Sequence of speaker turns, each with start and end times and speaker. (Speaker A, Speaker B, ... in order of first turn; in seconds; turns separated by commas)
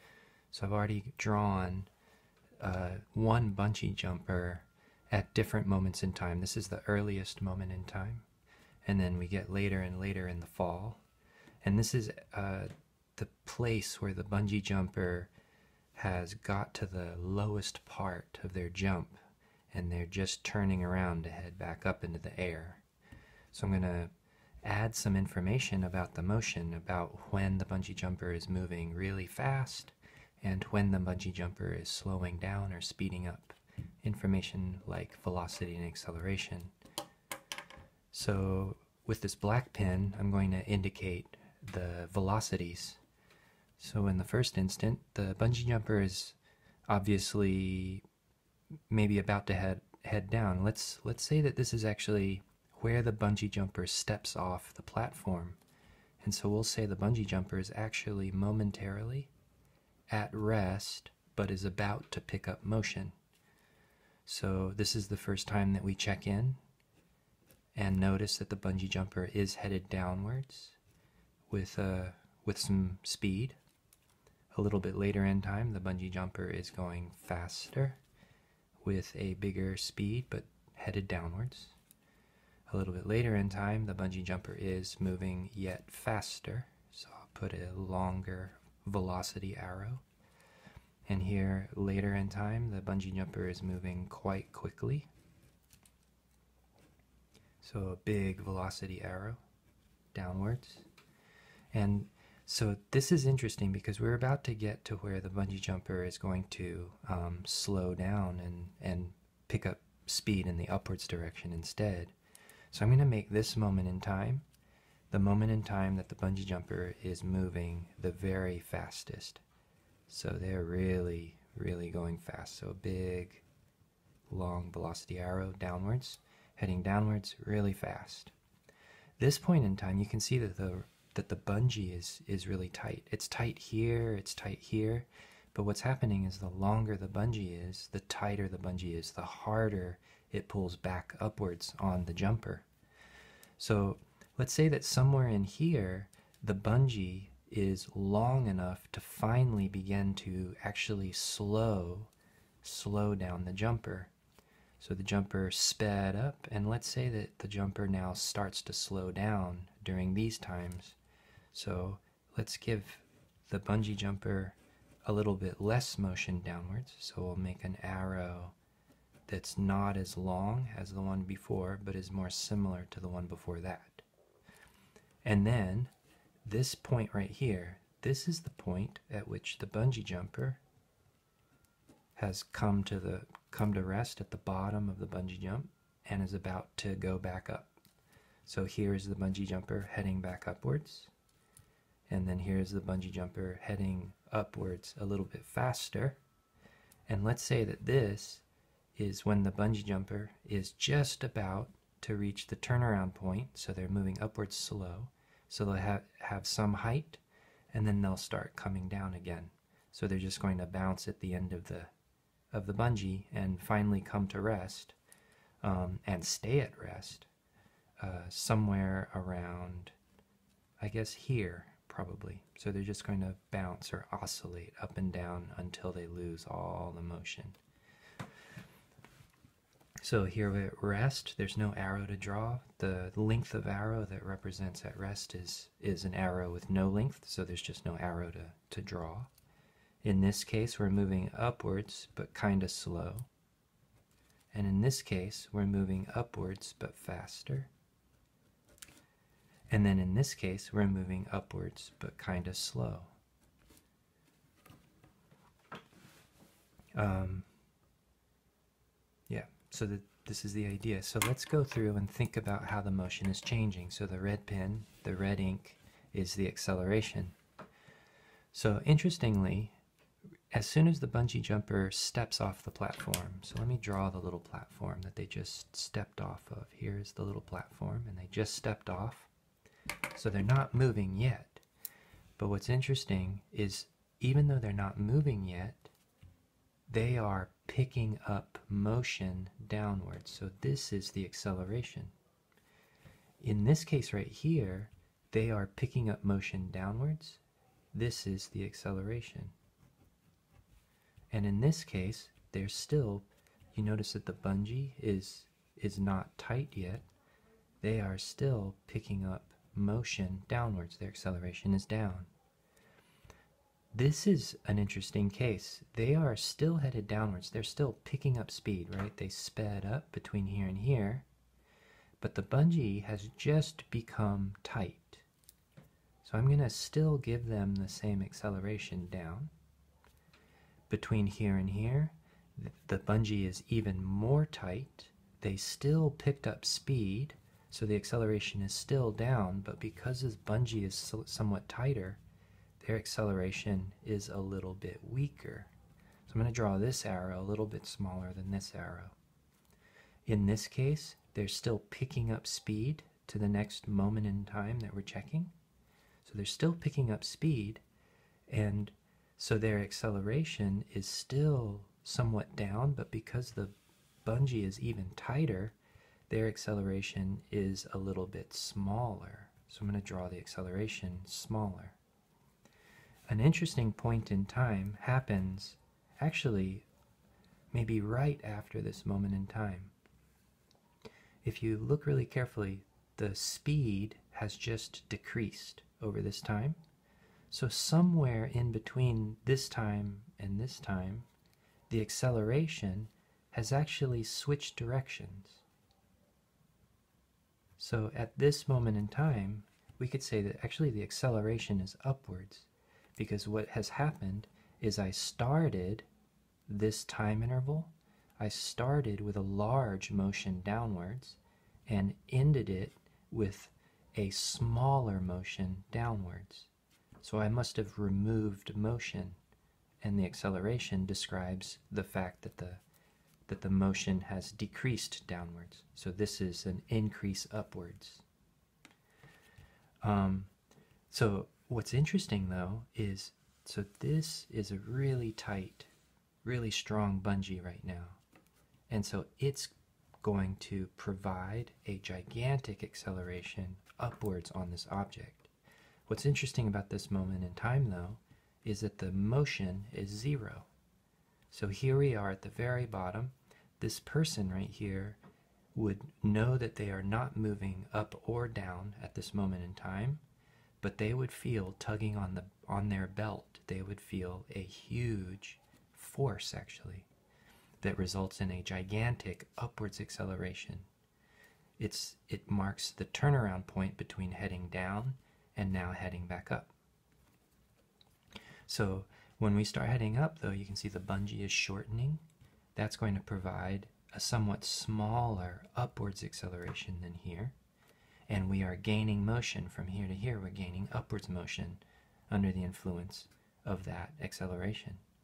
Speaker A: 0.5-1.9, Speaker A: 2.6-8.3, Speaker A: 8.8-11.0, Speaker A: 11.6-15.3, Speaker A: 15.9-19.2, Speaker A: 19.7-22.8, Speaker A: 23.5-24.1, Speaker A: 24.6-36.7, Speaker A: 38.1-43.0, Speaker A: 43.8-48.0, Speaker A: 48.9-55.6, Speaker A: 56.2-59.3, Speaker A: 60.1-63.1, Speaker A: 64.3-66.6, Speaker A: 67.8-70.8, Speaker A: 71.5-73.6, Speaker A: 74.5-78.0, Speaker A: 78.8-81.7, Speaker A: 82.7-90.0, Speaker A: 91.1-95.1, Speaker A: 97.6-99.4, Speaker A: 100.1-100.9, Speaker A: 101.7-112.1, Speaker A: 112.7-114.5, Speaker A: 115.1-119.4, Speaker A: 120.1-123.4, Speaker A: 124.3-128.3, Speaker A: 129.2-142.7, Speaker A: 143.6-152.1, Speaker A: 152.6-154.1, Speaker A: 154.8-161.0, Speaker A: 161.5-168.6, Speaker A: 169.3-174.0, Speaker A: 175.2-175.9, Speaker A: 176.4-180.6, Speaker A: 182.2-187.7, Speaker A: 188.5-191.1, Speaker A: 192.1-196.2, Speaker A: 197.1-198.4, Speaker A: 199.0-211.9, Speaker A: 212.5-214.9, Speaker A: 215.6-217.3, Speaker A: 218.0-219.9, Speaker A: 220.8-227.6, Speaker A: 230.0-239.3, Speaker A: 240.0-243.3, Speaker A: 244.5-247.7, Speaker A: 249.7-253.1, Speaker A: 256.9-257.5, Speaker A: 259.3-267.4, Speaker A: 268.5-269.7, Speaker A: 270.5-279.3, Speaker A: 280.1-281.6, Speaker A: 282.4-285.9, Speaker A: 286.9-292.1, Speaker A: 293.4-297.4, Speaker A: 297.9-299.5, Speaker A: 301.3-307.1, Speaker A: 307.8-312.3, Speaker A: 313.9-321.3, Speaker A: 322.2-325.2, Speaker A: 326.2-329.5, Speaker A: 330.9-342.2, Speaker A: 342.8-345.7, Speaker A: 346.3-349.1, Speaker A: 350.3-355.5, Speaker A: 356.2-357.8, Speaker A: 358.5-365.8, Speaker A: 366.3-372.0, Speaker A: 373.3-376.9, Speaker A: 377.7-379.9, Speaker A: 381.4-386.8, Speaker A: 387.5-391.3, Speaker A: 391.9-395.6, Speaker A: 397.8-406.1, Speaker A: 406.7-416.7, Speaker A: 417.2-419.4, Speaker A: 420.0-422.8, Speaker A: 423.5-428.2, Speaker A: 430.0-430.5, Speaker A: 431.1-435.9, Speaker A: 436.4-438.2, Speaker A: 438.9-445.5, Speaker A: 446.1-450.7, Speaker A: 451.5-455.2, Speaker A: 455.8-460.2, Speaker A: 460.8-467.1, Speaker A: 467.8-470.9, Speaker A: 471.8-476.7, Speaker A: 478.7-482.2, Speaker A: 482.8-487.6, Speaker A: 488.3-495.0